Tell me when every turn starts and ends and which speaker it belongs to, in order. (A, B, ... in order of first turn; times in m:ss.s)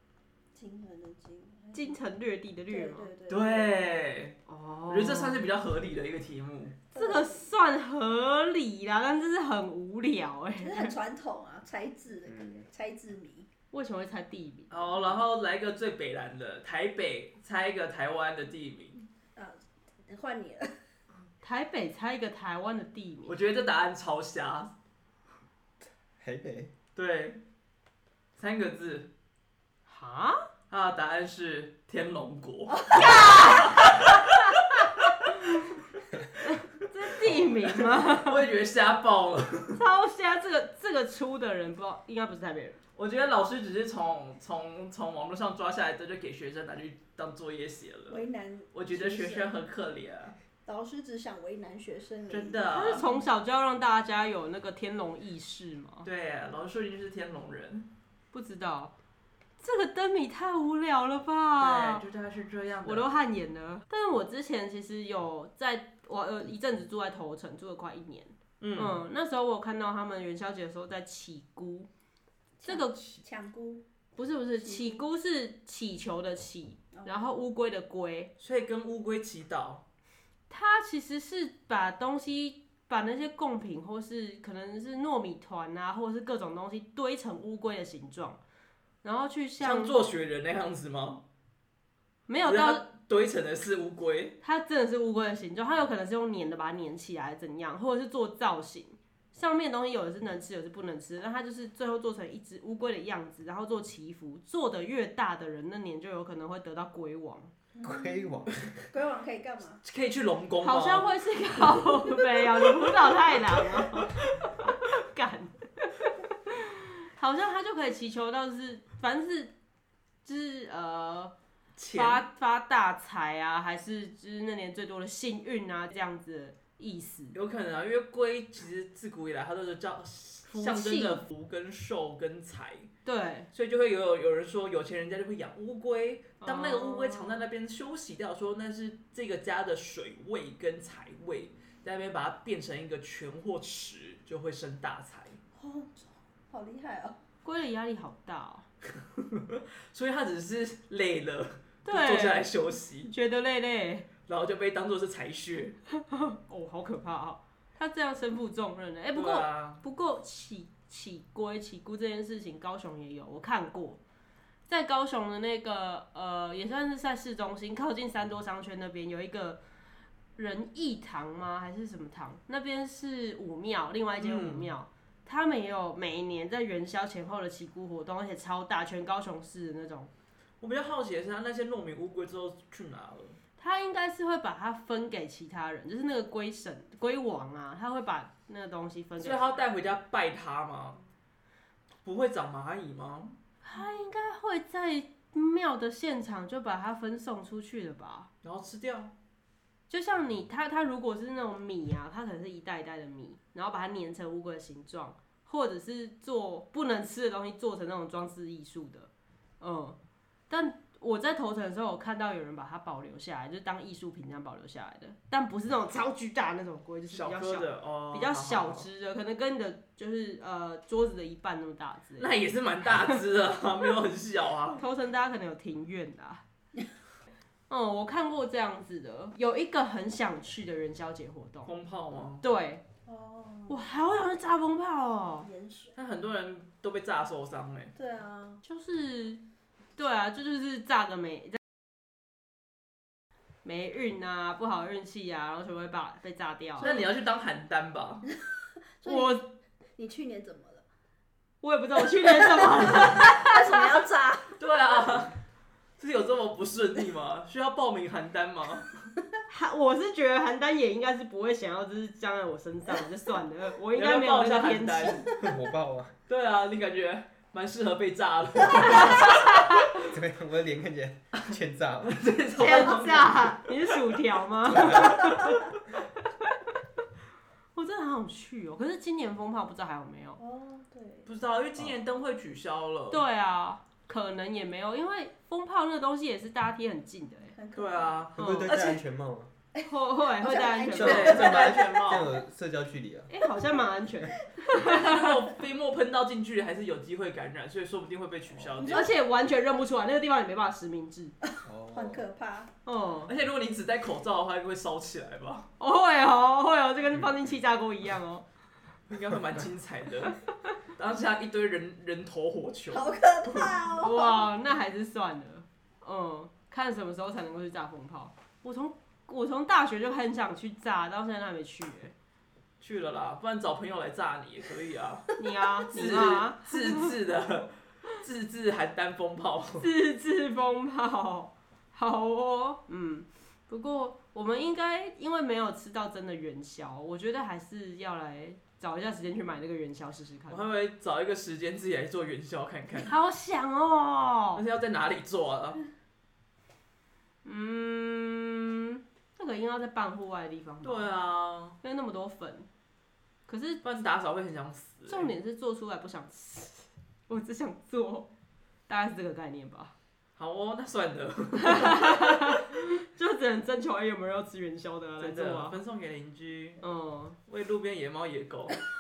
0:00.5-0:02.0 A
0:01.7-0:03.1 B
0:02.7-0:03.7 A
0:03.3-0:06.8 C
0:04.5-0:05.4 B
0:06.9-0:07.5 A
0:06.9-0:10.9 B
0:10.6-0:13.5 A
0:13.7-0:15.2 B
0:14.7-0:19.0 C
0:19.4-0:20.7 A
0:21.4-0:23.3 B
0:23.3-0:24.7 C
0:26.2-0:26.7 D
0:27.0-0:27.4 C
0:28.4-0:29.1 C
0:29.9-0:30.4 B
0:30.7-0:35.3 C
0:32.8-0:33.7 A
0:33.0-0:33.6 B
0:36.4-0:38.4 B
0:37.2-0:39.8 C
0:39.8-0:42.8 B
0:43.0-0:48.2 C
0:48.1-0:49.5 A
0:48.7-0:50.4 C
0:50.6-0:53.1 A
0:52.3-0:53.1 C
0:52.7-0:56.1 B
0:56.0-0:57.9 C
0:58.3-0:58.9 B
0:59.6-1:02.0 B
1:01.6-1:03.1 C
1:02.8-1:11.9 B
1:08.6-1:09.0 C
1:12.6-1:13.8 A
1:12.6-1:13.0 B
1:14.2-1:18.3 B
1:14.6-1:15.0 A
1:16.9-1:17.3 A
1:18.4-1:19.8 C
1:20.5-1:28.4 B
1:29.0-1:29.9 B
1:29.6-1:31.2 C
1:32.3-1:32.8 B
1:32.4-1:34.4 C
1:34.4-1:47.5 B
1:47.7-1:49.8 A
1:47.8-1:48.8 D
1:49.8-1:51.2 C
1:50.6-1:59.5 B
1:53.6-1:54.7 C
2:00.2-2:01.3 B
2:01.8-2:02.2 C
2:01.9-2:07.4 B
2:07.3-2:12.9 C
2:10.5-2:11.2 B
2:13.0-2:13.5 B
2:13.5-2:25.4 C
2:16.4-2:17.4 B
2:25.5-2:27.2 A
2:27.4-2:28.6 B
2:29.0-2:33.1 C
2:31.9-2:32.5 B
2:33.0-2:34.1 B
2:34.3-2:35.8 C
2:36.0-2:44.0 B
2:39.1-2:39.8 C
2:44.7-2:49.6 B
2:50.4-3:00.1 B
2:54.2-2:54.7 C
3:00.6-3:03.4 C
3:03.6-3:09.6 B
3:09.2-3:11.0 C
3:12.0-3:13.4 C
3:13.6-3:18.3 B
3:18.4-3:19.1 C
3:19.9-3:30.0 B
3:30.5-3:42.3 B
3:37.1-3:38.9 C
3:42.2-3:44.8 C
3:44.7-3:46.4 B
3:47.7-3:51.7 B
3:51.6-3:52.4 C
3:52.4-3:52.8 B
3:53.0-3:53.8 A
3:53.7-3:55.5 B
3:55.4-3:56.0 A
3:56.0-3:57.9 C
3:58.0-3:58.6 A
3:58.6-3:59.4 B
4:00.0-4:01.6 B
4:03.6-4:07.0 B
4:06.8-4:08.3 C
4:06.8-4:07.1 A
4:09.0-4:10.8 A
4:09.0-4:09.5 B
4:11.6-4:13.6 B
4:12.2-4:14.6 A
4:14.6-4:15.4 C
4:16.0-4:19.1 C
4:19.5-4:25.3 B
4:23.9-4:25.3 C
4:25.4-4:26.1 D
4:26.3-4:29.8 C
4:29.0-4:29.9 B
4:30.0-4:32.2 D
4:31.4-4:34.2 C
4:32.5-4:35.8 B
4:34.8-4:35.5 C
4:34.8-4:35.1 D
4:37.7-4:40.4 B
4:40.4-4:41.3 A
4:41.2-4:43.2 C
4:43.1-4:47.6 B
4:47.6-4:48.2 A
4:47.7-4:49.0 C
4:48.4-4:48.8 B
4:48.4-4:49.5 D
4:49.8-4:52.2 A
4:49.8-4:51.5 B
4:50.9-4:52.3 C
4:51.0-4:53.4 D
4:53.3-4:55.3 B
4:54.7-4:59.1 C
4:58.7-4:59.1 A
4:58.9-5:01.3 B
5:01.6-5:02.2 D
5:01.9-5:02.7 A
5:02.8-5:03.3 B
5:03.3-5:05.7 C
5:05.8-5:08.4 B
5:09.1-5:13.8 C
5:12.9-5:14.5 A
5:14.0-5:22.1 B
5:22.8-5:29.9 C
5:25.4-5:27.1 B
5:29.8-5:40.6 B
5:40.5-5:43.1 C
5:43.0-5:44.6 B
5:44.5-5:45.8 C
5:47.4-5:51.1 B
5:50.8-5:51.8 C
5:51.8-5:52.7 B
5:53.5-5:53.8 B
5:53.8-5:55.3 C
5:55.1-5:58.3 B
5:58.9-5:59.9 B
6:00.4-6:02.6 C
6:01.6-6:05.8 B
6:05.2-6:06.8 C
6:06.8-6:07.4 B
6:07.5-6:08.8 C